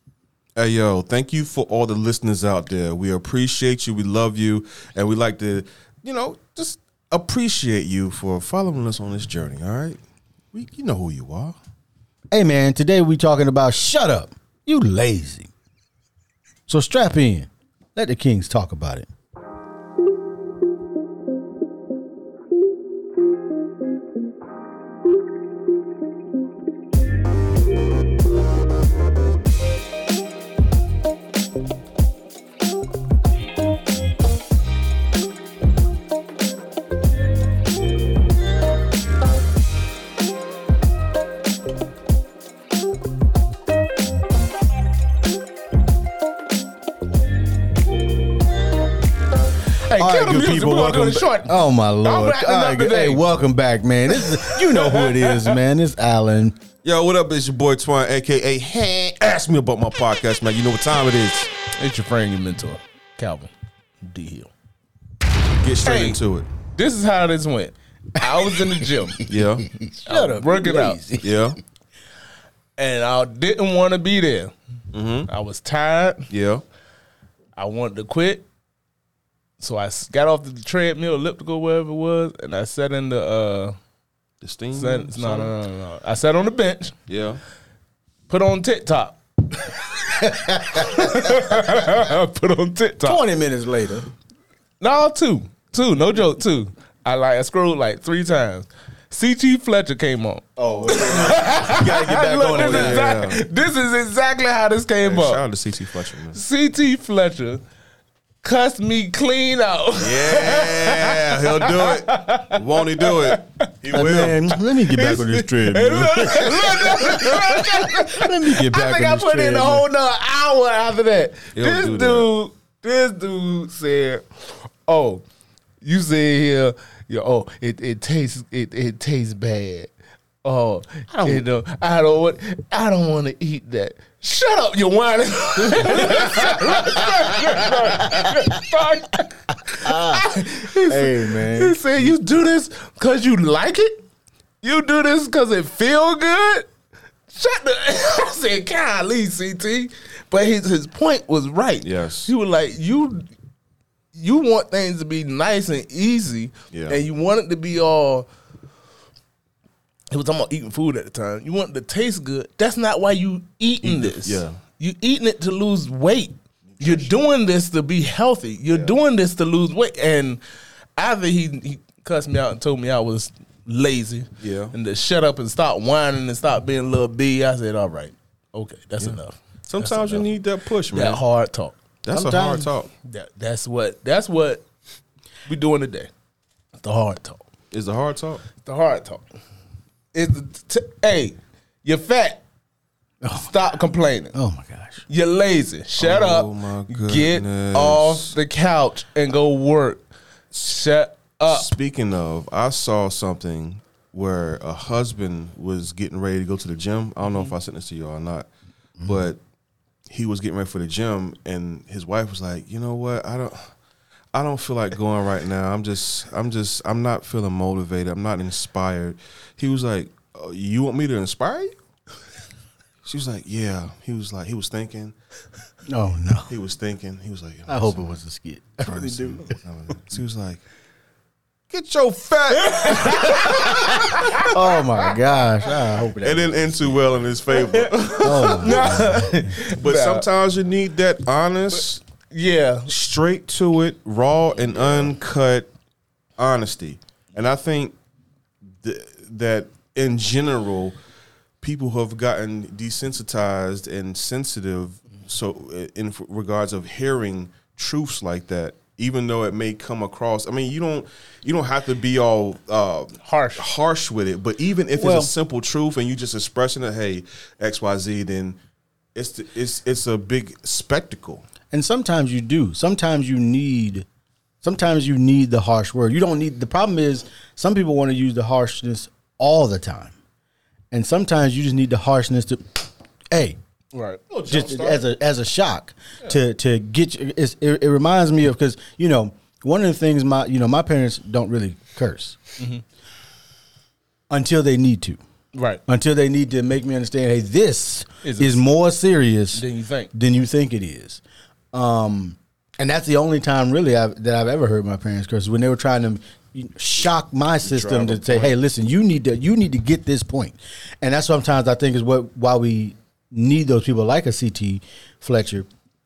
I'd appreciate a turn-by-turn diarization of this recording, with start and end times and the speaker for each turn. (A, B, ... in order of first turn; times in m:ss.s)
0:00.6-0:10.0 A
0:10.5-0:11.6 A
0:12.3-0:15.5 B
0:16.7-0:19.1 B
0:49.9-0:53.2 C
0:50.0-0:56.6 B
0:54.1-0:55.5 C
0:56.8-1:01.5 A
1:01.8-1:04.5 C
1:05.6-1:06.5 A
1:05.8-1:06.2 C
1:06.7-1:09.3 C
1:08.2-1:11.5 B
1:09.3-1:09.7 A
1:10.0-1:11.0 C
1:11.2-1:11.6 A
1:12.8-1:14.5 C
1:14.9-1:15.3 A
1:15.3-1:16.3 C
1:16.3-1:16.6 A
1:17.6-1:18.4 C
1:19.6-1:23.7 C
1:24.4-1:25.5 A
1:24.7-1:26.9 C
1:27.1-1:27.4 A
1:28.3-1:33.2 C
1:30.2-1:31.4 B
1:33.0-1:34.1 B
1:34.8-1:45.5 C
1:40.6-1:41.8 A
1:40.9-1:43.1 B
1:42.5-1:43.4 A
1:45.0-1:46.4 A
1:46.2-1:47.6 C
1:48.4-1:53.7 C
1:50.0-1:55.3 A
1:53.9-1:59.9 B
1:54.8-2:05.2 C
2:01.5-2:02.3 A
2:05.8-2:09.9 C
2:10.4-2:24.0 C
2:19.7-2:20.2 B
2:20.9-2:21.8 B
2:24.6-2:26.7 C
2:27.3-2:33.3 C
2:31.8-2:32.3 A
2:34.1-2:38.3 C
2:36.7-2:37.0 A
2:40.1-2:50.4 C
2:43.8-2:44.6 A
2:46.8-2:47.2 A
2:48.7-2:49.0 A
2:51.0-3:00.3 C
2:54.4-2:54.7 A
2:59.0-3:01.2 A
3:00.9-3:01.8 C
3:02.0-3:02.9 A
3:02.1-3:02.7 B
3:03.0-3:04.6 C
3:05.5-3:06.1 C
3:06.8-3:07.4 C
3:07.7-3:08.4 A
3:08.6-3:09.2 C
3:10.1-3:12.4 C
3:13.2-3:13.5 B
3:13.3-3:14.3 C
3:14.3-3:15.0 B
3:15.1-3:20.0 C
3:16.0-3:18.4 A
3:20.5-3:21.7 C
3:21.5-3:28.5 A
3:29.0-3:29.2 B
3:29.0-3:29.4 A
3:30.1-3:33.7 A
3:34.3-3:41.7 A
3:43.0-3:45.1 A
3:45.9-3:46.5 B
3:46.5-3:48.0 A
3:47.7-3:49.5 B
3:48.8-3:50.6 A
3:51.7-3:54.2 A
3:52.5-3:54.5 C
3:54.3-3:56.6 B
3:56.2-4:02.0 A
3:57.8-4:00.3 C
3:58.2-3:59.2 B
4:02.3-4:02.9 C
4:02.9-4:05.7 A
4:04.6-4:05.1 C
4:06.4-4:07.9 A
4:08.8-4:11.0 A
4:11.6-4:28.6 A
4:23.2-4:23.7 C
4:24.9-4:25.3 B
4:29.1-4:31.4 A
4:31.7-4:34.0 B
4:34.6-4:40.1 B
4:40.9-4:42.8 B
4:43.3-4:43.6 B
4:43.9-4:44.2 C
4:44.3-4:45.1 A
4:44.4-4:52.4 B
4:54.3-4:55.2 B
4:55.5-4:55.8 C
4:55.8-5:01.2 B
4:58.2-4:58.6 C
4:59.5-5:00.1 C
5:01.7-5:15.7 B
5:07.6-5:08.6 A